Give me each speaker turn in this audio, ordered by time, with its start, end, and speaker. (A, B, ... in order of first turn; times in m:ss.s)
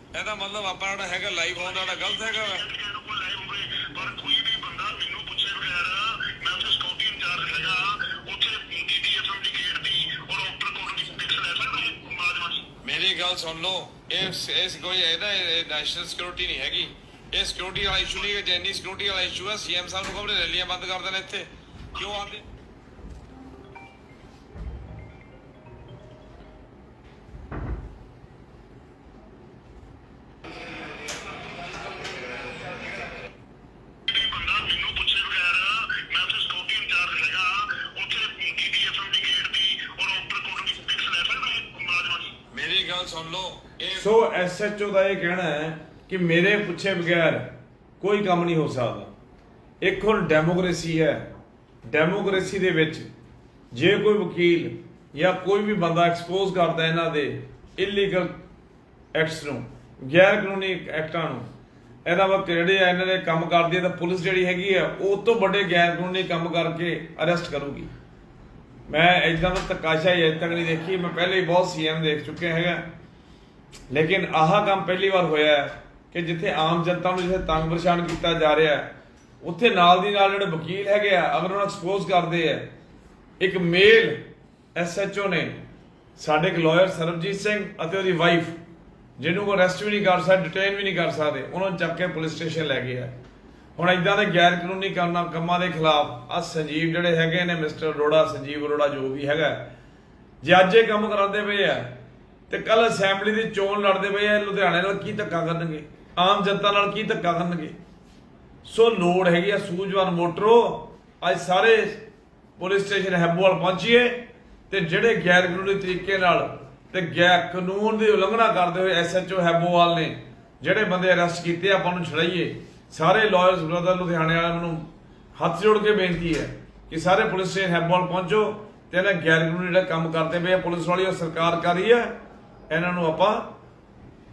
0:00.1-0:02.6 A
0:01.6-0:12.7 B
0:12.8-0:22.4 A
0:34.1-0:42.4 B
0:42.5-0:44.0 A
0:43.9-0:49.1 C
0:49.8-0:51.2 C
0:51.8-0:53.1 C
0:53.7-0:58.4 C
0:59.1-1:01.4 C
1:02.0-1:07.9 C
1:08.9-1:12.8 C
1:13.9-1:22.7 C
1:23.4-1:24.2 C
1:24.7-1:25.6 C
1:26.2-1:28.6 C
1:29.2-1:33.1 C
1:33.8-1:39.7 C
1:40.4-1:42.0 C
1:42.5-1:47.8 C
1:48.6-1:52.0 C
1:52.6-2:04.8 C
2:05.4-2:12.1 C
2:12.7-2:13.5 C